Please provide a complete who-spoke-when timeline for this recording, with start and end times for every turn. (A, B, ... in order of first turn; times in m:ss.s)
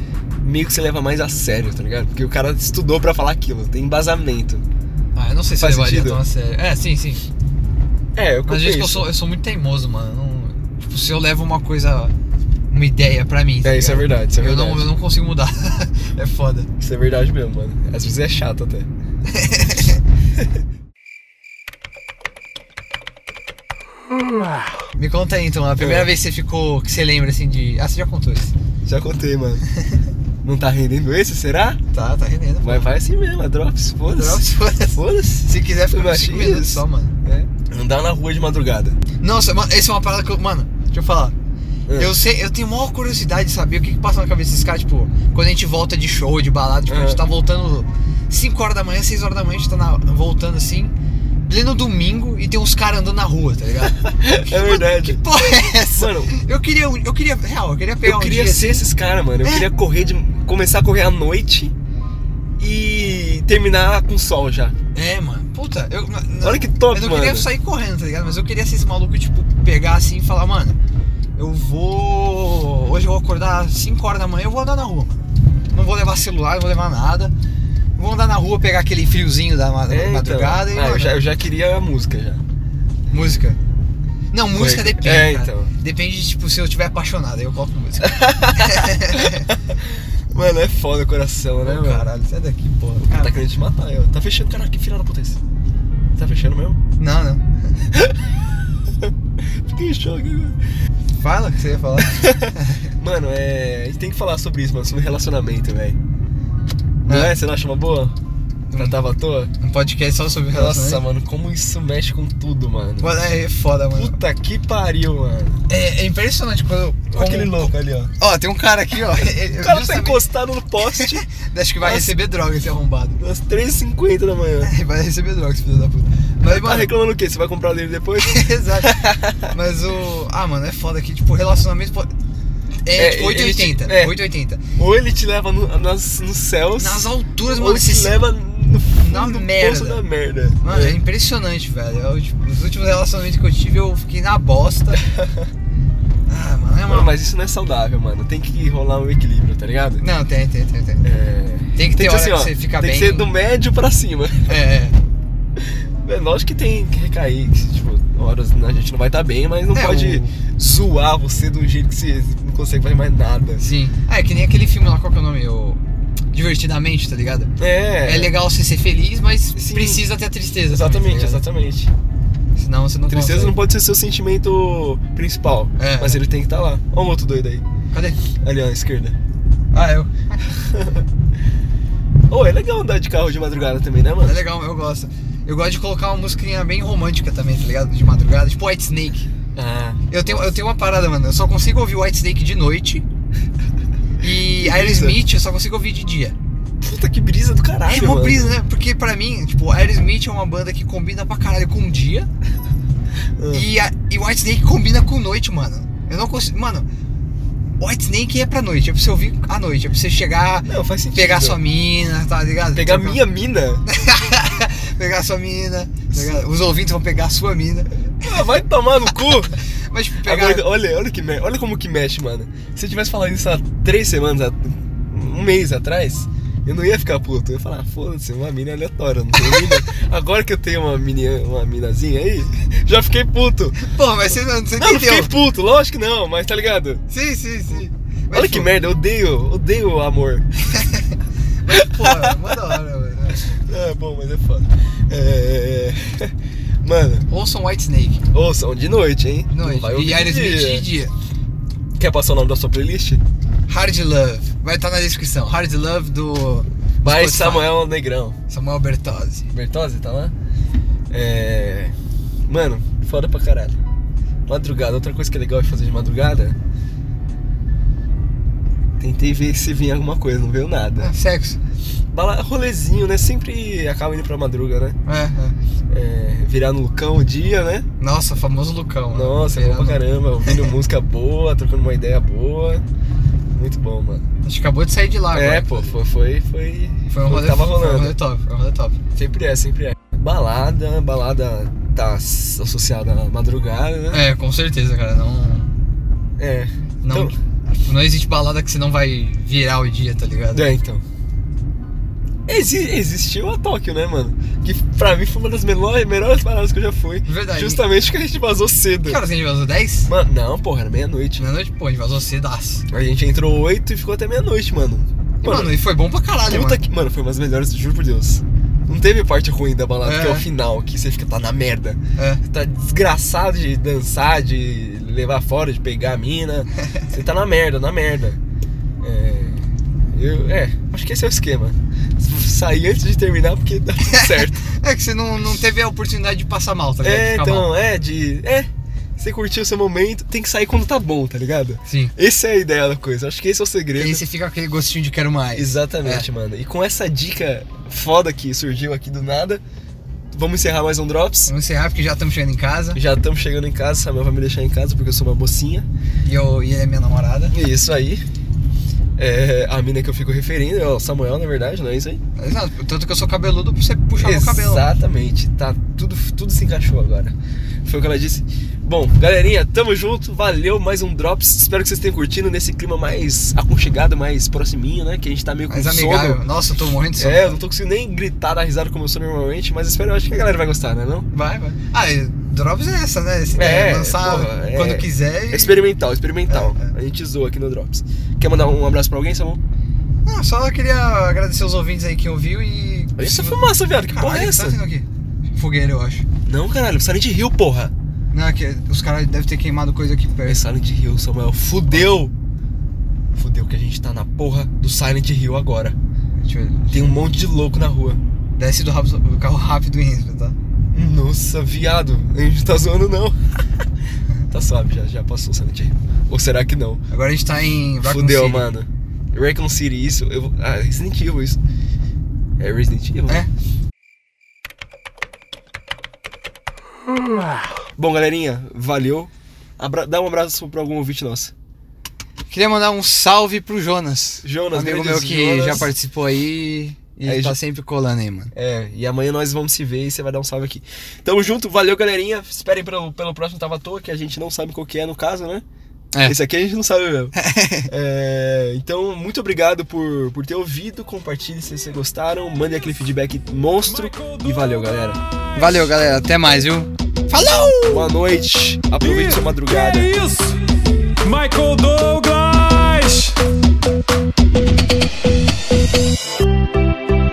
0:00.4-0:04.6 A
0:05.2-0:07.2 B
0:05.6-0:06.2 A
0:08.2-0:09.1 A
0:08.5-0:12.1 B
0:12.7-0:16.7 B
0:13.6-0:14.9 A
0:16.8-0:18.9 A
0:19.3-0:20.0 B
0:25.0-0:28.5 B
0:25.8-0:26.1 A
0:28.8-0:29.6 A
0:30.4-0:31.8 A
0:31.9-0:32.9 B
0:32.6-0:39.0 A
0:34.1-0:37.2 B
0:39.2-0:41.3 B
0:41.9-0:42.2 A
0:42.0-0:51.0 B
0:46.9-0:47.2 A
0:51.5-0:58.8 B
0:54.0-0:56.4 A
0:58.0-1:01.7 A
1:02.6-1:04.8 A
1:04.9-1:10.8 B
1:06.4-1:07.5 A
1:11.4-1:15.2 B
1:15.7-1:17.3 B
1:18.0-1:21.2 B
1:19.9-1:22.4 A
1:23.1-1:23.6 B
1:23.1-1:23.4 A
1:24.3-1:29.5 B
1:24.6-1:25.7 A
1:28.1-1:32.1 A
1:31.6-1:33.4 B
1:33.0-1:35.4 A
1:36.2-1:36.8 A
1:37.0-1:37.5 B
1:37.9-1:38.5 A
1:39.0-1:40.6 A
1:41.2-1:42.9 B
1:42.0-1:46.0 A
1:47.1-1:47.3 B
1:47.1-1:48.2 A
1:48.7-1:49.0 B
1:48.7-1:49.5 A
1:49.6-1:51.0 B
1:50.5-1:53.1 A
1:53.0-1:54.2 B
1:53.9-1:55.6 A
1:55.7-2:00.3 B
1:57.1-1:58.1 A
1:59.2-2:01.3 A
2:00.9-2:03.2 B
2:01.8-2:02.2 A
2:03.2-2:04.7 A
2:04.6-2:06.9 B
2:06.4-2:09.4 A
2:08.2-2:12.1 B
2:12.8-2:14.6 B
2:12.9-2:14.2 A
2:14.8-2:21.0 A
2:16.8-2:18.2 B
2:19.0-2:20.0 B
2:20.6-2:25.0 B
2:25.1-2:25.5 A
2:26.3-2:27.2 B
2:26.9-2:30.0 A
2:30.0-2:31.1 B
2:31.0-2:34.6 A
2:31.8-2:33.3 B
2:34.5-2:35.0 B
2:35.6-2:43.6 A
2:39.7-2:40.3 B
2:43.6-2:45.8 B
2:46.3-2:47.5 B
2:47.6-2:48.4 A
2:48.0-2:51.4 B
2:49.6-2:50.1 A
2:50.7-2:51.9 A
2:52.6-2:53.6 B
2:53.1-2:57.6 A
2:55.8-2:56.2 B
2:57.9-2:58.2 B
2:58.4-2:59.2 A
2:59.7-3:00.4 B
3:00.6-3:01.0 A
3:02.3-3:04.4 A
3:04.2-3:09.3 B
3:09.5-3:10.5 A
3:10.1-3:13.0 B
3:14.2-3:16.4 B
3:14.2-3:15.2 A
3:16.8-3:18.6 A
3:17.9-3:22.3 B
3:23.4-3:23.7 A
3:23.5-3:26.9 B
3:27.8-3:33.2 B
3:30.7-3:31.6 A
3:32.7-3:33.8 A
3:33.9-3:38.5 B
3:36.1-3:36.4 A
3:38.2-3:39.6 A
3:39.9-3:40.7 B
3:40.2-3:53.8 A
3:49.5-3:49.8 B
3:53.8-3:55.3 B
3:54.8-3:57.0 A
3:57.1-3:58.7 B
3:58.3-4:00.5 A
4:00.8-4:01.0 B
4:01.6-4:03.5 B
4:01.7-4:02.6 A
4:03.3-4:07.3 A
4:07.3-4:08.2 B
4:08.3-4:10.9 A
4:09.5-4:11.1 B
4:12.0-4:13.2 A
4:13.7-4:17.7 B
4:17.0-4:18.4 A
4:18.5-4:19.5 B
4:19.5-4:20.3 A
4:21.1-4:22.0 A
4:22.5-4:23.8 A
4:24.5-4:26.6 A
4:29.0-4:31.1 A
4:31.0-4:31.6 B
4:32.1-4:35.0 A
4:35.0-4:35.6 B
4:35.9-4:37.9 A
4:38.0-4:40.7 B
4:39.1-4:42.8 A
4:43.5-4:44.3 A
4:44.4-4:46.0 B
4:45.3-4:48.2 A
4:47.1-4:49.0 B
4:49.1-4:54.3 A
4:54.1-4:55.7 B
4:56.4-4:57.4 A
4:57.0-5:00.7 B
5:00.5-5:01.0 A
5:02.5-5:09.2 A
5:07.3-5:07.8 B
5:09.0-5:10.1 B
5:10.1-5:11.5 A
5:11.4-5:12.8 B
5:12.9-5:15.8 A
5:15.4-5:16.8 B
5:16.5-5:28.4 A
5:20.0-5:20.4 B
5:22.2-5:22.4 B
5:29.0-5:34.6 A
5:34.0-5:37.7 B
5:37.0-5:44.2 A
5:41.9-5:42.1 B
5:44.0-5:46.3 B
5:45.6-5:49.6 A
5:50.3-5:51.5 A
5:51.5-5:53.0 B
5:53.0-5:55.9 A
5:56.2-5:57.6 B
5:57.5-5:58.2 A
5:59.2-6:02.2 A
6:02.4-6:04.9 B
6:04.2-6:16.4 A
6:15.7-6:17.6 B
6:17.2-6:21.3 A
6:21.3-6:25.8 B
6:23.6-6:29.6 A
6:26.5-6:26.9 B
6:30.2-6:36.2 B
6:33.2-6:34.8 A
6:36.4-6:37.9 A
6:38.3-6:40.6 B
6:40.4-6:42.3 A
6:43.3-6:46.0 A
6:46.3-6:47.2 B
6:46.9-6:48.2 A
6:48.6-6:50.6 B
6:50.9-6:53.8 A
6:54.5-6:57.0 A
6:57.1-6:58.7 B
6:58.0-7:01.6 A
7:02.6-7:03.5 A
7:08.0-7:11.5 A
7:12.5-7:18.5 B
7:14.4-7:15.9 A
7:17.2-7:17.6 A
7:18.5-7:25.6 A
7:26.2-7:27.4 A
7:27.4-7:27.9 B
7:27.9-7:35.2 A
7:34.1-7:34.4 C
7:35.6-7:38.1 B
7:37.9-7:40.2 A
7:39.1-7:40.6 C
7:41.2-7:43.4 C